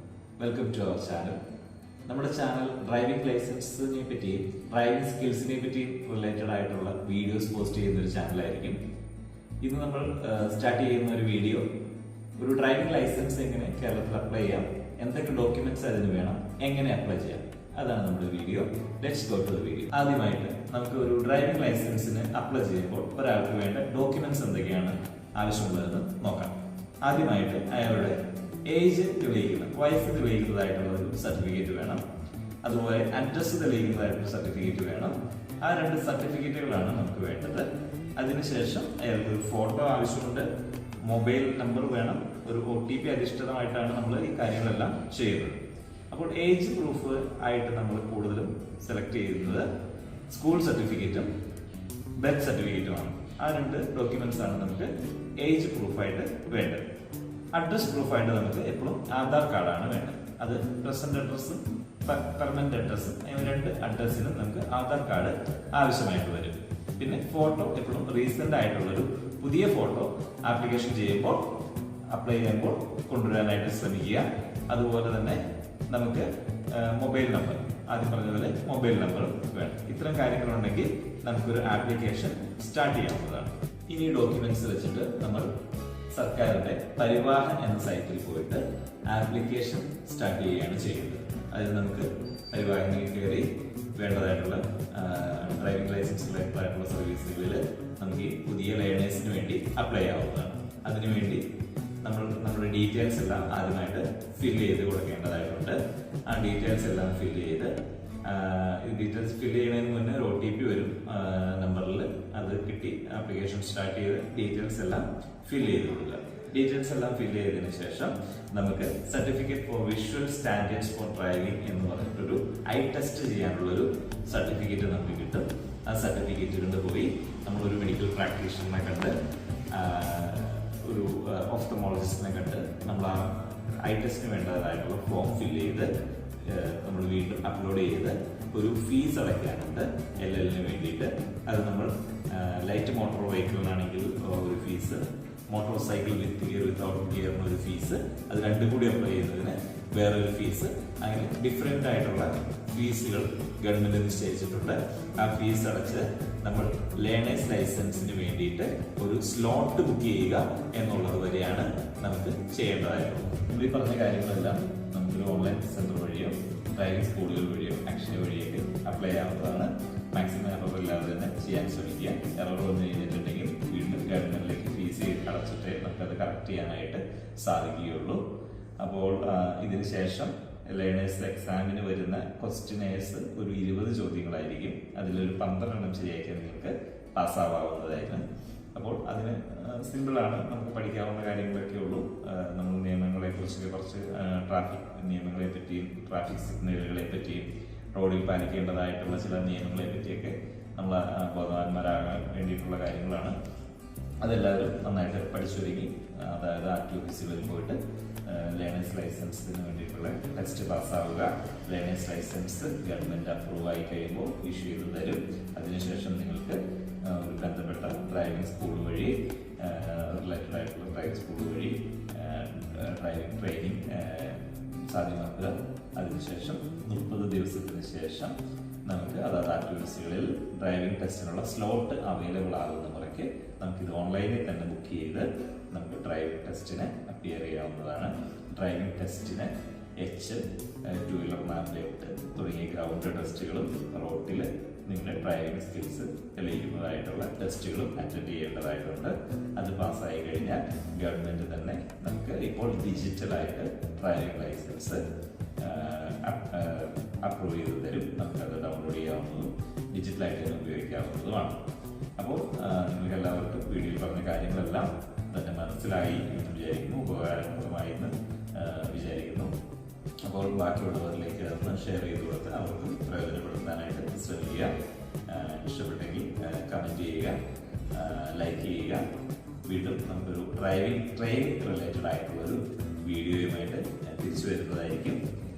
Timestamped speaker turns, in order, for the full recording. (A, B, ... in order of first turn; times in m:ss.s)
0:00.4-0:01.4 A
0:02.1-0:08.8 A
0:09.6-0:11.6 A
0:12.4-0:32.0 A
0:32.6-0:40.5 A
0:41.0-0:45.6 A
0:46.1-0:49.7 A
0:50.3-0:51.3 A
0:52.2-0:56.8 A
0:57.5-1:11.5 A
1:12.1-1:25.5 A
1:26.1-1:41.4 A
1:42.0-2:09.1 A
2:09.7-2:58.2 A
2:58.8-3:23.4 A
3:24.2-4:15.0 A
4:15.6-4:21.6 A
4:22.2-4:29.5 A
4:30.2-4:34.7 A
4:35.3-4:37.4 A
4:37.9-4:39.0 A
4:39.6-4:45.2 A